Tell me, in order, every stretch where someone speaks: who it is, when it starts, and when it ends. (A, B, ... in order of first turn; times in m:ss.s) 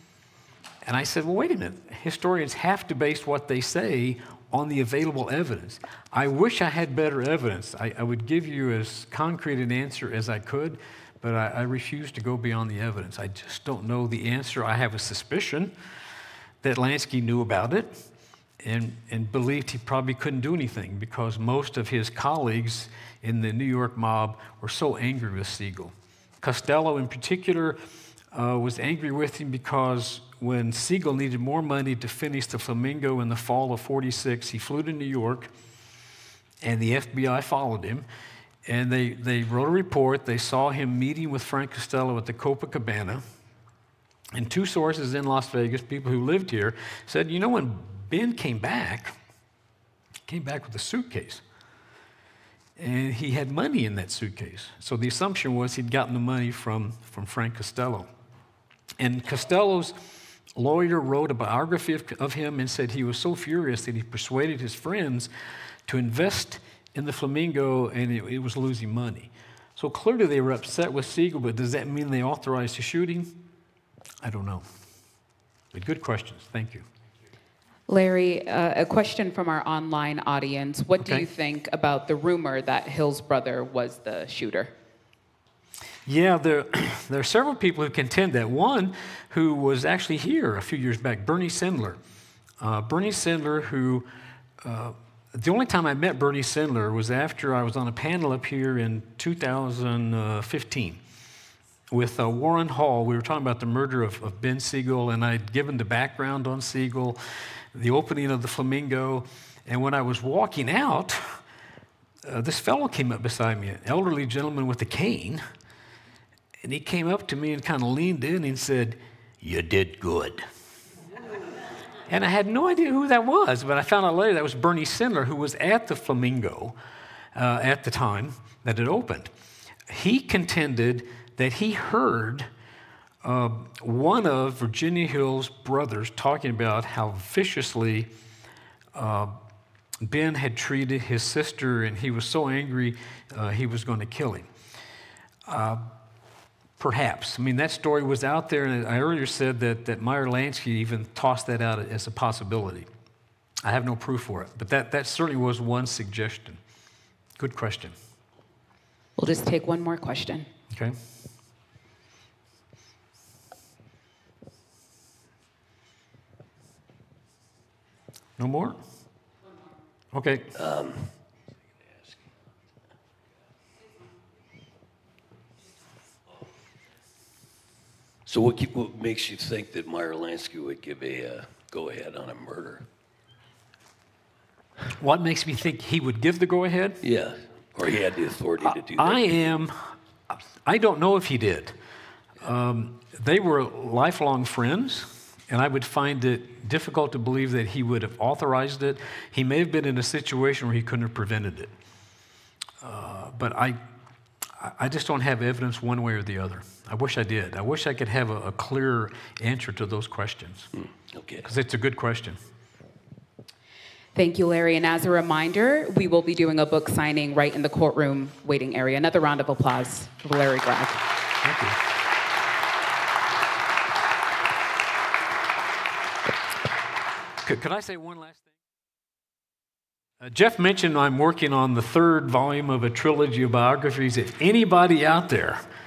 0:00.8-0:15.7 A
0:16.6-0:18.0 A
0:18.6-0:27.8 A
0:28.3-0:35.5 A
0:36.6-0:38.1 A
0:38.7-0:43.2 A
0:44.3-0:49.2 A
0:50.3-0:51.4 A
0:52.8-0:58.1 A
0:59.0-1:05.3 A
1:05.9-1:13.3 A
1:14.2-1:14.7 A
1:15.7-1:16.9 A
1:17.9-1:24.7 B
1:21.0-1:21.3 A
1:26.1-1:32.0 A
1:32.6-1:34.1 A
1:34.6-1:41.0 A
1:41.9-1:47.2 A
1:47.7-1:51.4 A
1:52.3-1:55.4 A
1:56.6-2:00.4 A
2:02.1-2:06.8 A
2:07.4-2:09.3 A
2:09.9-2:12.5 A
2:13.2-2:18.1 A
2:18.9-2:19.4 A
2:20.0-2:24.5 A
2:25.5-2:25.9 A
2:26.8-2:32.9 A
2:33.6-2:36.6 A
2:37.4-2:38.0 A
2:39.2-2:40.5 B
2:40.7-2:41.0 A
2:48.4-2:48.8 A
2:50.1-2:50.5 A
2:50.6-2:51.1 C
2:58.3-3:02.8 C
3:05.0-3:07.0 A
3:07.0-3:09.2 C
3:08.6-3:11.8 A
3:12.4-3:21.7 A
3:22.8-3:23.8 A
3:24.6-3:30.7 A
3:30.8-3:31.4 C
3:31.4-3:32.4 A
3:34.2-3:41.0 B
3:41.4-3:41.8 A
3:47.4-3:48.5 A
3:50.2-3:55.6 A